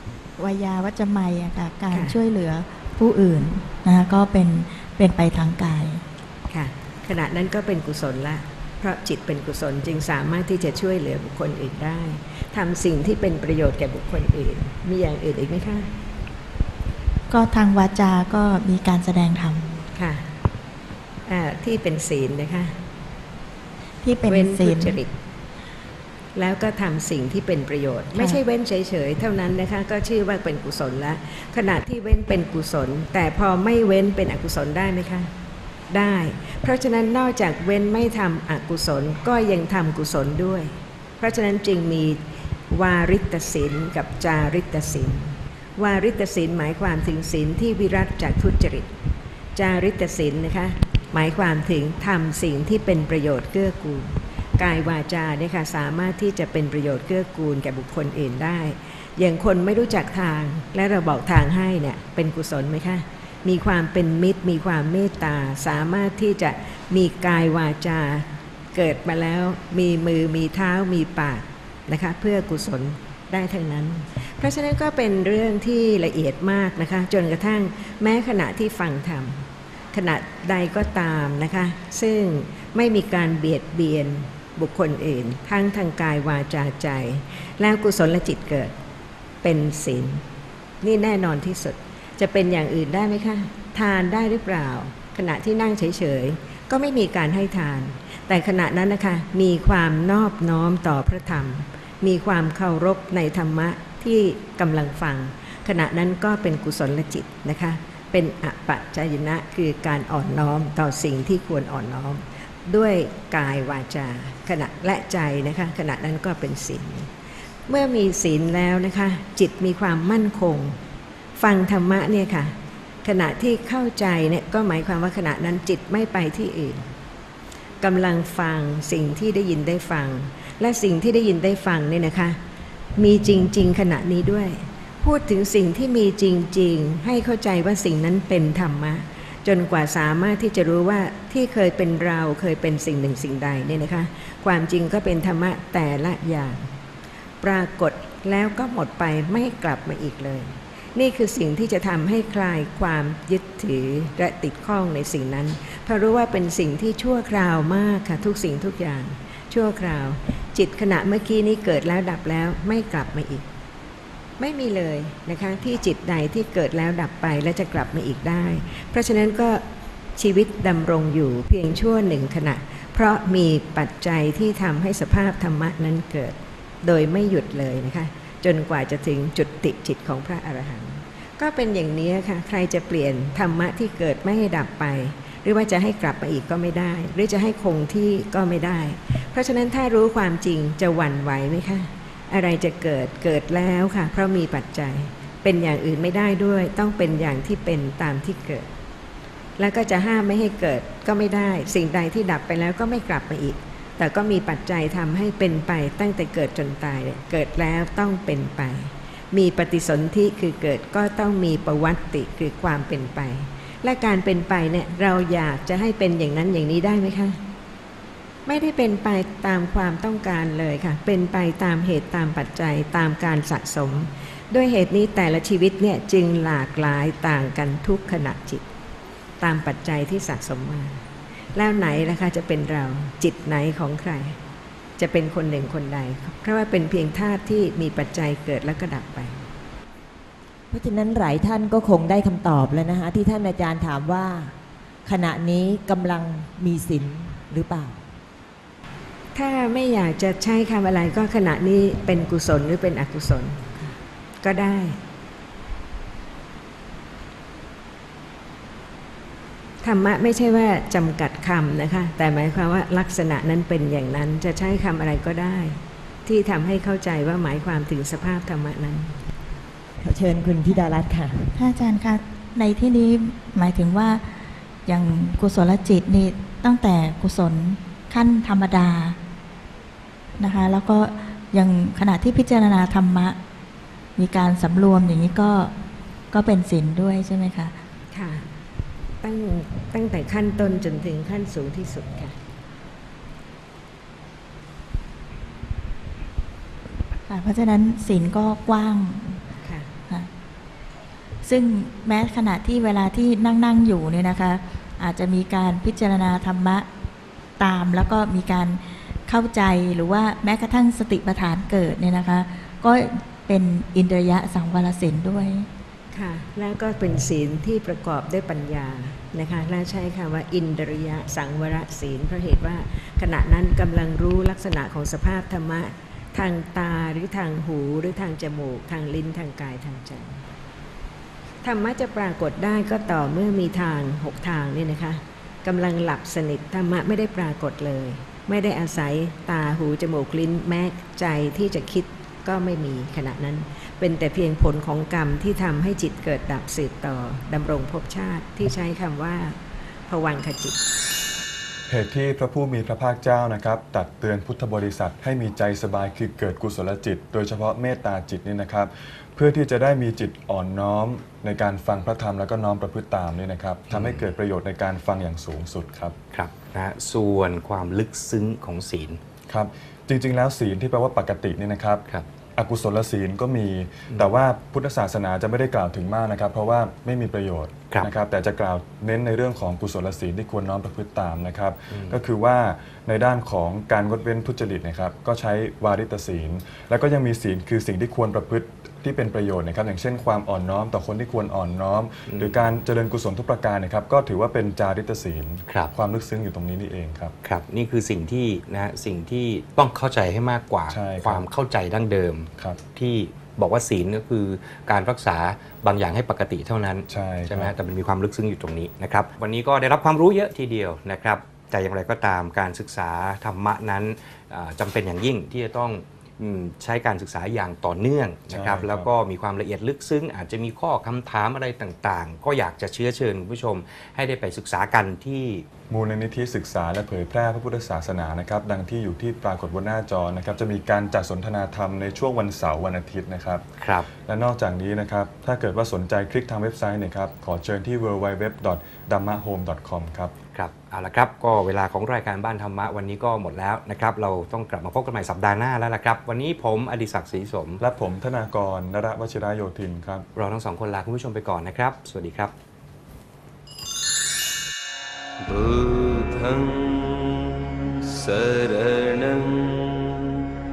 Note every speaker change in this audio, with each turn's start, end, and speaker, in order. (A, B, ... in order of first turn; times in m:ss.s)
0:00.4-0:06.0 A
0:01.9-0:02.2 B
0:06.5-0:15.9 B
0:17.3-0:19.8 A
0:19.9-0:20.3 B
0:21.2-0:22.8 B
0:24.0-0:25.0 A
0:24.2-0:25.1 B
0:26.3-0:35.3 B
0:28.1-0:28.4 A
0:35.9-0:48.9 B
0:49.5-1:28.7 B
1:29.4-1:30.2 B
1:30.8-1:57.1 B
1:57.7-2:00.8 B
2:01.4-2:06.8 B
2:07.8-2:12.4 B
2:13.0-2:26.7 B
2:27.4-2:43.5 B
2:44.4-2:49.6 B
2:50.2-3:18.7 B
3:19.6-3:37.4 B
3:38.4-3:48.6 B
3:49.4-3:51.0 B
3:51.5-3:54.4 B
3:55.0-3:59.4 B
4:00.7-4:04.5 C
4:05.0-4:08.0 C
4:09.3-4:15.0 B
4:19.8-4:29.2 B
4:30.0-4:31.5 C
4:31.5-4:39.2 A
4:40.4-4:43.4 A
4:44.2-4:45.7 A
4:46.3-4:47.7 A
4:48.1-4:48.4 B
4:49.2-4:52.4 B
4:57.2-4:59.4 A
4:59.6-4:59.9 B
5:01.4-5:06.9 A
5:07.6-5:15.7 A
5:16.1-5:30.4 B
5:31.6-5:50.8 B
5:51.9-6:06.2 D
6:03.9-6:04.3 E
6:06.3-6:09.2 E
6:09.5-6:12.0 D
6:12.6-6:37.3 D
6:21.9-6:22.2 E
6:32.3-6:32.6 E
6:37.4-7:05.6 E
6:40.9-6:41.4 D
6:47.1-6:47.7 D
6:58.5-6:59.1 D
7:05.9-7:13.6 D
7:13.8-7:14.1 E
7:14.2-7:20.3 D
7:20.5-7:27.8 E
7:27.8-7:30.3 D
7:30.3-7:32.5 E
7:35.4-7:40.4 F